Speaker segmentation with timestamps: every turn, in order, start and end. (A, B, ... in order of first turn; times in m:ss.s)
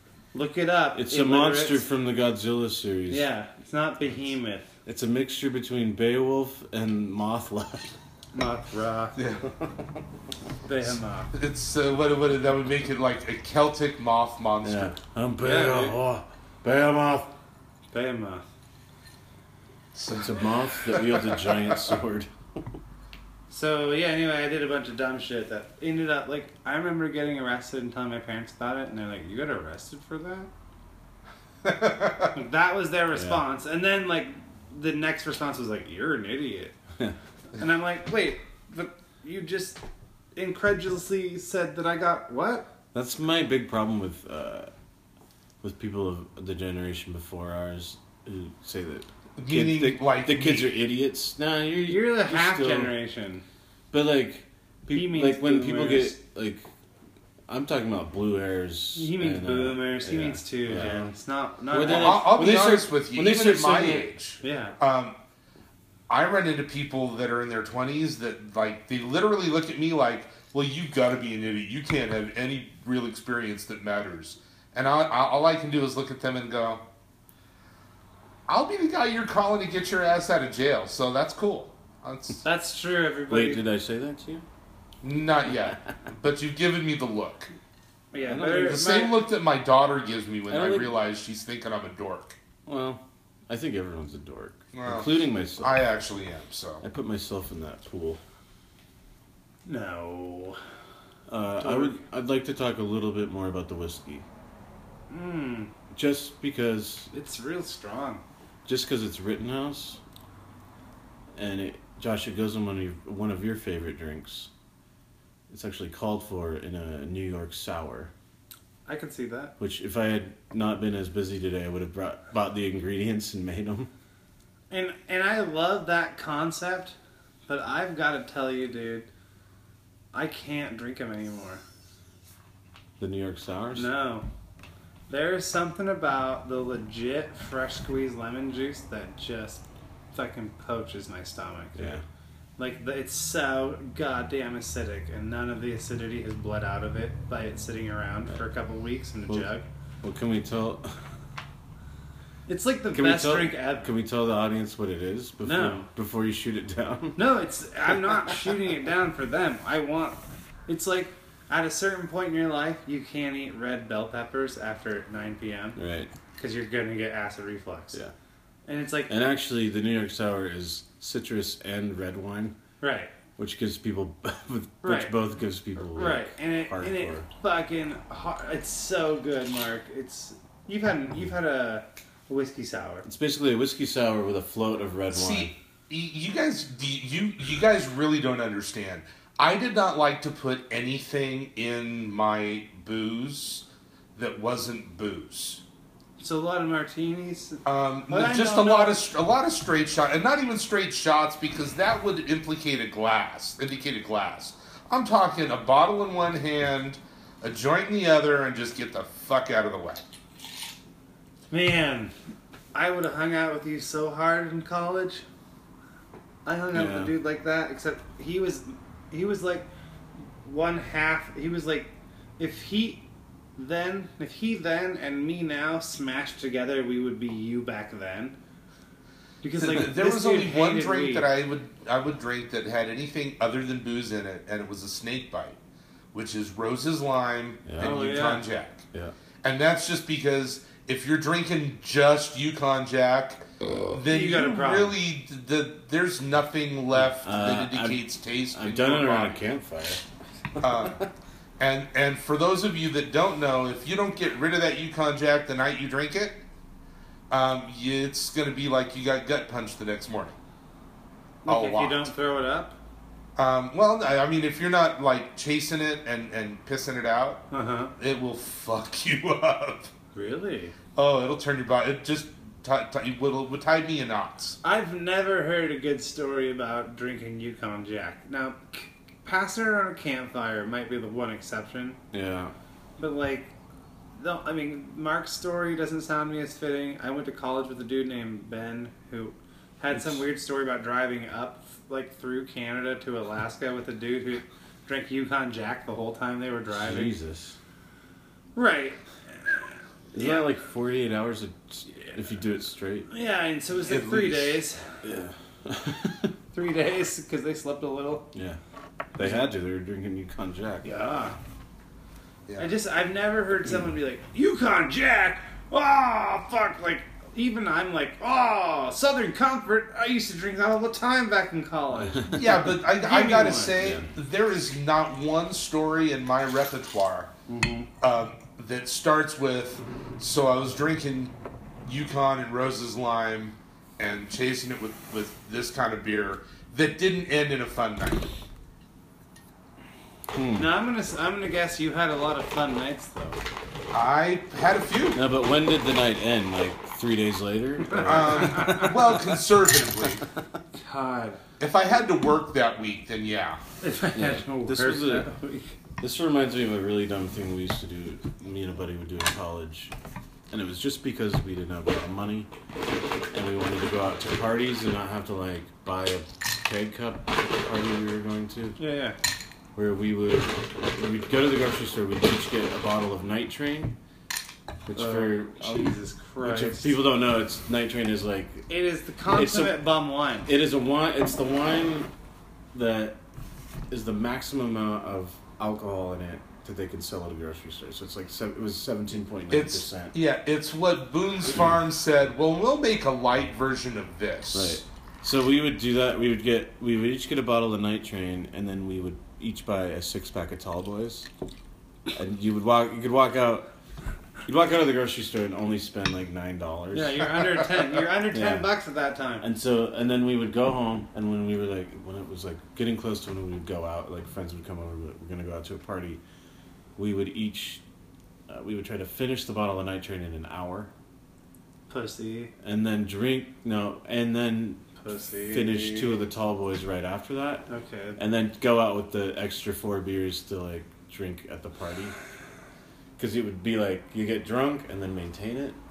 0:00.3-0:01.8 A
0:01.0-0:03.3 B
0:03.1-0:04.7 A
0:04.9-0:08.0 B
0:08.3-0:09.2 A
0:09.2-0:09.5 C
0:10.7-0:11.3 A
0:11.3-0:14.9 C
0:14.6-0:17.3 B
0:15.4-0:16.0 A
0:17.9-0:18.5 A
0:19.9-0:22.0 C
0:20.2-0:22.3 B
0:23.5-0:30.5 A
0:31.6-0:32.3 C
0:32.3-0:36.8 A
0:33.1-0:33.4 B
0:37.6-0:39.8 A
0:40.4-0:42.7 A
0:42.9-0:44.7 B
0:45.6-0:52.9 B
0:49.4-0:50.7 C
0:51.9-0:53.4 A
0:53.9-0:56.6 B
0:54.9-0:56.2 A
0:57.5-1:01.1 B
0:59.0-1:02.2 A
1:01.7-1:04.1 B
1:01.9-1:05.2 C
1:04.4-1:04.8 A
1:06.1-1:16.8 C
1:18.5-1:22.4 C
1:22.4-1:23.6 A
1:23.3-1:24.4 B
1:25.0-1:27.5 C
1:28.1-1:29.2 A
1:28.2-1:28.8 B
1:28.7-1:32.4 C
1:30.5-1:30.9 B
1:32.7-1:35.8 B
1:34.7-1:36.8 C
1:36.8-1:38.2 B
1:39.7-1:40.6 A
1:41.3-1:44.2 B
1:41.6-1:42.0 A
1:45.1-1:45.7 A
1:45.9-1:47.1 B
1:47.1-1:48.2 A
1:48.6-1:50.0 B
1:51.4-1:54.5 B
1:55.5-1:58.1 B
1:58.9-1:59.5 A
1:59.6-2:03.9 B
2:04.7-2:07.0 A
2:07.5-2:09.1 A
2:10.1-2:11.6 A
2:13.0-2:13.9 B
2:13.8-2:14.3 A
2:15.1-2:22.0 A
2:21.8-2:22.0 B
2:22.6-2:29.6 A
2:30.0-2:30.9 B
2:32.5-2:33.9 A
2:32.9-2:37.3 B
2:35.4-2:35.9 A
2:37.2-2:45.8 A
2:45.8-2:46.1 B
2:46.4-2:48.0 A
2:48.7-2:49.1 A
2:49.1-2:52.6 B
2:52.8-2:53.1 A
2:53.4-2:57.3 B
2:54.8-2:55.2 A
2:56.0-3:03.0 A
3:03.0-3:05.5 B
3:05.1-3:13.6 C
3:14.2-3:15.6 C
3:16.2-3:19.0 A
3:17.6-3:30.0 C
3:31.5-3:32.1 A
3:32.7-3:35.2 A
3:36.5-3:39.7 A
3:36.7-3:37.1 B
3:40.4-3:43.0 A
3:43.6-3:48.4 A
3:49.4-3:51.3 A
3:49.6-3:55.6 C
3:56.1-3:58.8 C
3:57.7-3:58.2 B
3:57.8-3:58.4 A
3:59.4-4:09.4 C
4:04.1-4:05.0 A
4:07.1-4:10.0 B
4:10.6-4:11.0 B
4:10.6-4:11.0 C
4:11.6-4:16.4 C
4:17.3-4:20.4 C
4:21.4-4:22.8 A
4:21.5-4:22.1 C
4:23.4-4:27.5 C
4:27.5-4:27.9 A
4:28.0-4:29.9 C
4:30.1-4:30.8 A
4:31.0-4:34.6 C
4:34.6-4:42.0 A
4:42.1-4:42.5 B
4:43.0-4:43.5 A
4:44.1-4:57.1 A
4:49.9-4:50.2 B
4:56.7-4:57.6 B
4:58.6-5:00.5 A
5:00.1-5:03.1 B
5:03.1-5:05.0 A
5:03.8-5:04.6 C
5:05.0-5:06.3 B
5:06.5-5:08.3 A
5:08.3-5:08.6 B
5:09.1-5:10.9 B
5:09.2-5:09.5 A
5:10.8-5:11.4 A
5:12.6-5:23.8 A
5:22.0-5:22.5 B
5:22.3-5:27.3 C
5:23.8-5:24.1 B
5:27.5-5:27.9 A
5:28.0-5:31.3 C
5:31.8-5:38.3 C
5:40.3-5:40.7 B
5:40.6-5:43.4 A
5:43.9-5:45.2 C
5:45.1-5:48.9 B
5:47.9-5:48.9 A
5:48.0-5:50.2 C
5:50.8-5:51.4 A
5:51.6-5:53.6 C
5:53.8-5:55.7 A
5:54.1-5:55.3 B
5:56.0-5:59.9 B
6:00.5-6:02.5 B
6:03.3-6:08.8 B
6:08.8-6:09.2 A
6:09.8-6:14.0 B
6:14.9-6:18.7 B
6:15.0-6:17.0 A
6:18.7-6:20.5 A
6:19.3-6:19.8 B
6:20.5-6:22.1 B
6:22.7-6:23.2 B
6:23.9-6:30.1 B
6:29.5-6:34.8 C
6:34.5-6:41.3 B
6:42.1-6:43.7 B
6:44.5-6:47.3 B
6:46.9-6:49.5 A
6:48.3-6:48.7 B
6:49.4-6:56.2 B
6:57.0-6:57.8 B
6:58.5-7:00.9 B
7:01.9-7:02.5 A
7:02.6-7:04.9 B
7:05.0-7:06.2 A
7:05.5-7:07.7 B
7:07.7-7:08.2 A
7:08.2-7:12.1 B
7:13.2-7:15.8 B